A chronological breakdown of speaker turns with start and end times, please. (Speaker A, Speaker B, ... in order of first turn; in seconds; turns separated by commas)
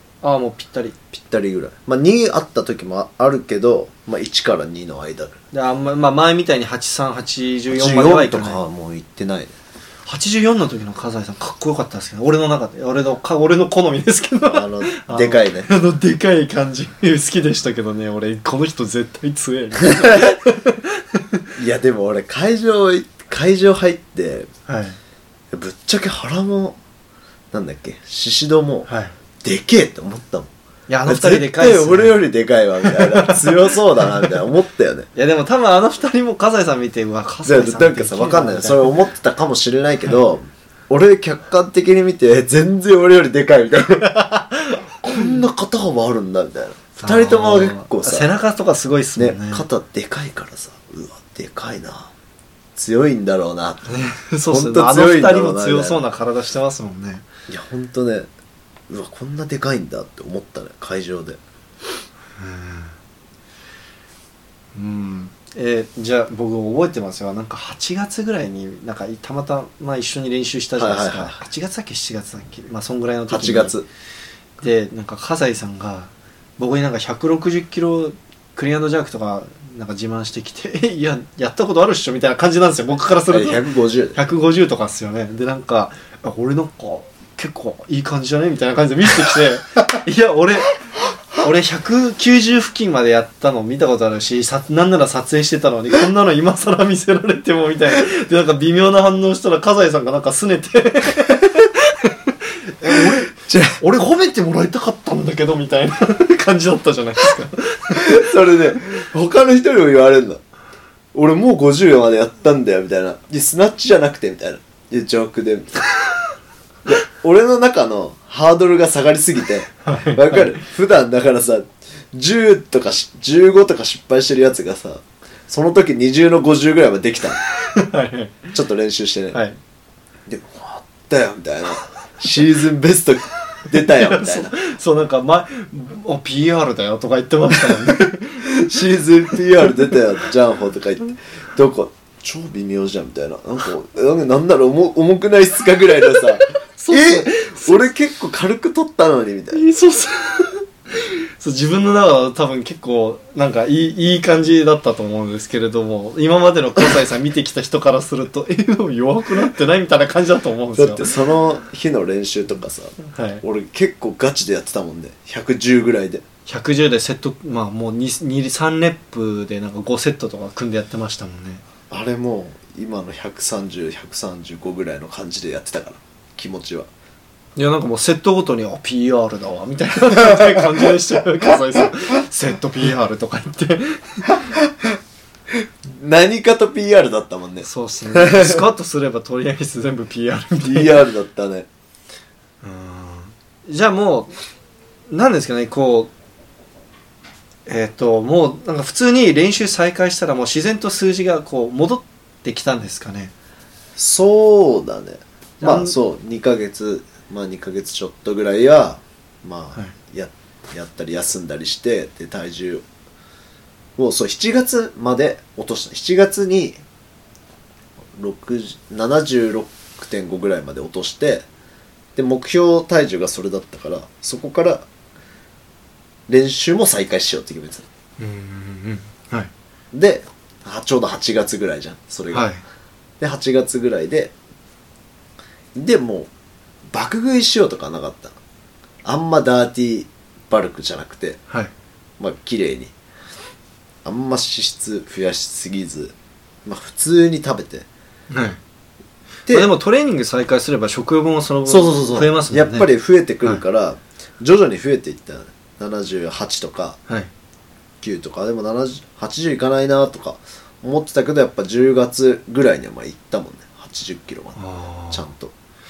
Speaker A: 0.2-1.0, Speaker B: 1.1-5.4, Speaker A: 5.5-8.6, Speaker B: 7.7-9.5, Speaker A: 10.1-21.5, Speaker B: 14.5-15.7, Speaker B: 19.9-20.4, Speaker B: 21.5-24.5, Speaker A: 24.7-25.0, Speaker B: 25.5-26.8, Speaker B: 27.5-28.9, Speaker A: 28.9-29.1, Speaker B: 29.4-30.5, Speaker A: 30.9-32.2, Speaker B: 31.1-35.1, Speaker A: 32.8-34.3, Speaker A: 35.1-38.9, Speaker B: 37.5-44.2, Speaker A: 44.1-45.3, Speaker B: 45.0-48.3, Speaker A: 47.0-49.6, Speaker B: 49.1-52.1, Speaker B: 52.8-53.9, Speaker A: 53.9-57.2, Speaker B: 54.5-56.0, Speaker B: 57.5-58.3, Speaker B: 58.9-61.4, Speaker A: 62.4-62.9, Speaker A: 64.7-73.7, Speaker B: 70.8-71.4, Speaker B: 73.3-73.9, Speaker A: 74.6-83.6, Speaker B: 83.3-84.2, Speaker A: 84.1-90.8, Speaker A: 91.4-108.3, Speaker B: 102.9-103.8, Speaker B: 107.9-110.4, Speaker B: 111.1-115.8, Speaker B: 116.8-127.4, Speaker A: 119.8-120.5, Speaker A: 127.4-128.5, Speaker B: 128.5-129.4, Speaker A: 129.3-129.6, Speaker B: 130.3-134.6, Speaker A: 133.8-138.6, Speaker B: 138.4-149.6, Speaker A: 146.1-147.7, Speaker A: 149.5-161.2, Speaker B: 160.8-166.2, Speaker A: 163.0-163.4, Speaker A: 166.4-171.6, Speaker B: 171.9-176.9, Speaker A: 177.6-184.4, Speaker B: 180.2-180.9, Speaker B: 184.4-184.9, Speaker B: 185.6-188.6, Speaker A: 187.6-191.1, Speaker B: 190.6-191.7, Speaker A: 192.6-194.3, Speaker A: 195.1-196.1, Speaker A: 197.7-203.3, Speaker B: 203.9-212.8, Speaker A: 205.6-205.9, Speaker B: 214.0-216.8, Speaker B: 218.2-221.4, Speaker B: 222.2-224.9, Speaker B: 226.3-227.8, Speaker A: 228.2-229.5, Speaker B: 229.9-232.5, Speaker A: 232.3-232.6, Speaker B: 233.2-234.3, Speaker B: 235.7-236.3, Speaker B: 236.9-238.4, Speaker B: 239.0-241.4, Speaker B: 242.2-242.9, Speaker B: 244.0-247.8, Speaker A: 248.3-248.6, Speaker A: 249.5-252.9, Speaker B: 251.7-257.0, Speaker B: 258.0-265.5, Speaker A: 264.6-265.2